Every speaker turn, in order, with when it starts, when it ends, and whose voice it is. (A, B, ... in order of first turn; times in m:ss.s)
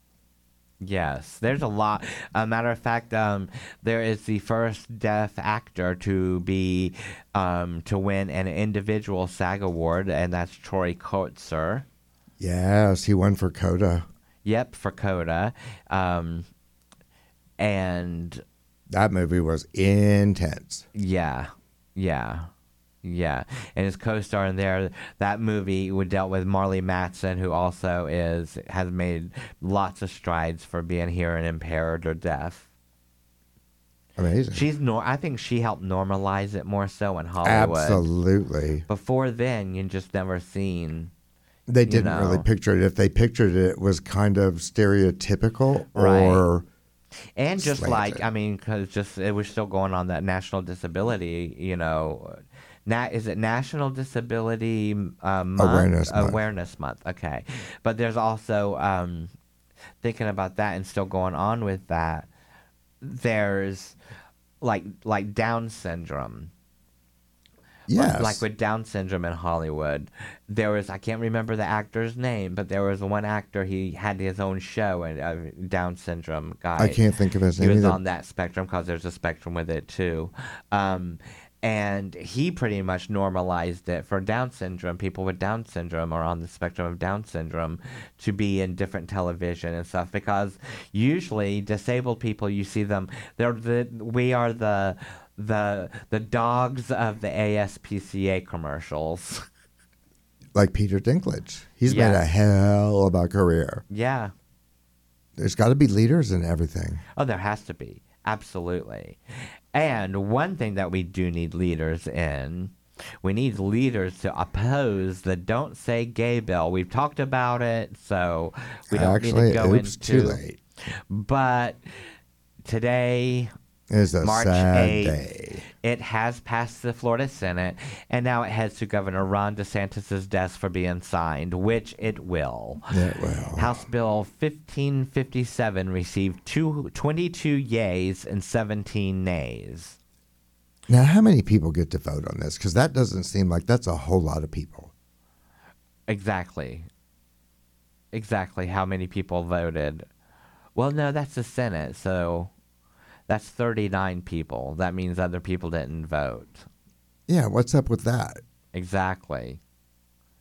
0:00.8-0:11.8 A
0:12.4-0:14.0 B
0:14.4-0:16.5 A
0:17.6-0:18.4 A
0:18.9-0:20.8 B
0:20.9-0:22.5 A
0:23.0-0:32.6 A
0:34.2-0:34.6 B
0:34.5-0:38.0 A
0:37.4-0:38.8 B
0:38.9-0:41.1 A
0:41.7-0:46.6 B
0:41.9-0:42.4 A
0:45.9-0:46.4 A
0:47.4-0:59.3 A
0:47.6-0:48.2 B
0:55.6-0:56.4 B
1:00.0-1:02.3 A
1:03.0-1:04.0 A
1:04.6-1:06.5 A
1:07.9-1:08.4 B
1:07.9-1:17.0 A
1:16.8-1:18.0 B
1:17.6-1:39.4 A
1:40.5-1:43.8 B
1:41.9-1:42.2 A
1:43.9-1:44.3 A
1:45.4-1:47.0 B
1:47.2-1:49.2 A
1:49.7-2:00.4 A
1:58.9-2:00.6 B
2:01.1-2:01.8 A
2:02.6-2:03.5 A
2:03.9-2:05.6 B
2:04.2-2:05.2 A
2:05.8-2:12.8 A
2:12.9-2:13.8 B
2:13.6-2:20.0 A
2:20.9-2:24.9 B
2:26.1-2:26.9 A
2:28.1-2:30.1 A
2:30.7-2:32.5 A
2:33.3-2:36.7 A
2:37.3-2:38.4 B
2:38.7-2:39.6 A